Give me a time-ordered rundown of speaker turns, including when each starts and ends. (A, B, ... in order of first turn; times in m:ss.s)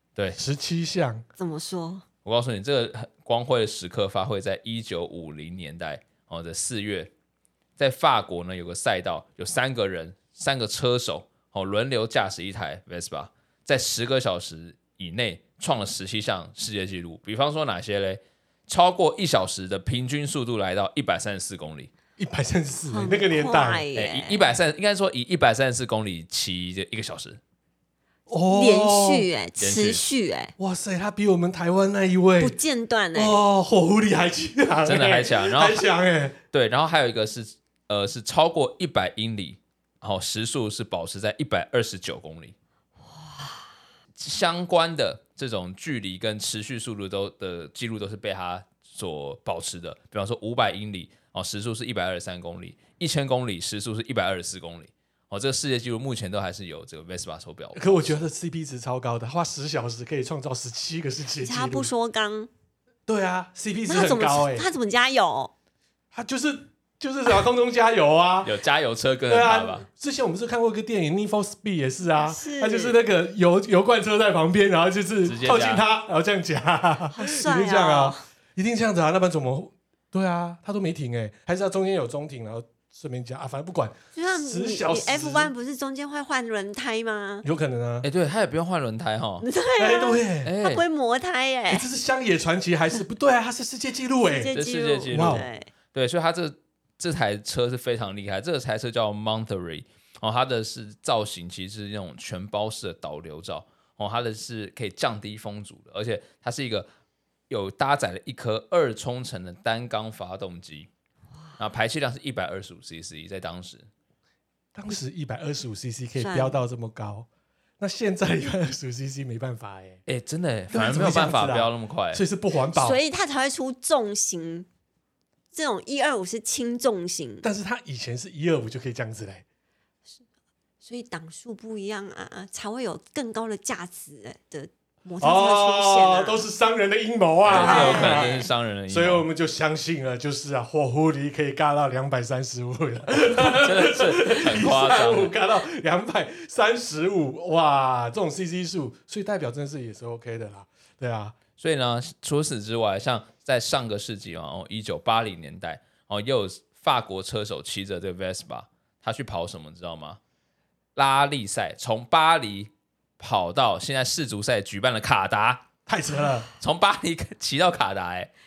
0:00.3-0:01.2 A
0:01.4-0:02.0 B
0:02.2-0:07.1 C
0:07.8-0:21.9 C
0:22.2-0:23.8 A
0:22.9-0:24.5 B
0:23.9-0:27.4 C
0:28.3-0:29.3 A
0:28.5-0:30.5 B
0:29.6-0:30.0 C
0:30.6-0:32.6 A
0:32.4-0:33.4 B
0:33.1-0:36.4 A
0:34.8-0:35.8 C
0:36.5-0:42.5 C
0:43.2-0:43.5 B
0:44.2-0:58.2 C
0:57.8-1:01.9 A
1:01.4-1:02.5 B
1:03.1-1:04.7 A
1:03.9-1:05.5 B
1:06.1-1:08.5 A
1:08.4-1:09.8 C
1:09.3-1:25.5 A
1:12.2-1:13.0 B
1:15.2-1:15.8 C
1:17.1-1:18.2 B
1:24.1-1:27.4 B
1:27.4-1:28.1 A
1:28.0-1:29.5 C
1:29.4-1:31.9 B
1:29.8-1:30.5 A
1:30.4-1:30.8 C
1:31.7-1:34.5 A
1:34.4-1:35.7 B
1:34.5-1:46.9 C
1:35.1-1:35.5 A
1:47.5-1:50.9 C
1:51.6-1:53.9 C
1:54.7-1:57.3 A
1:56.2-1:56.6 B
1:57.8-2:00.0 A
2:00.0-2:02.2 C
2:00.7-2:03.0 A
2:02.7-2:04.7 B
2:05.5-2:07.4 B
2:07.4-2:09.4 A
2:10.8-2:16.4 B
2:15.2-2:31.3 A
2:17.4-2:19.2 C
2:17.5-2:18.5 B
2:23.1-2:25.3 C
2:31.6-2:40.2 C
2:41.0-2:45.6 C
2:45.9-2:46.5 A
2:46.6-2:48.3 C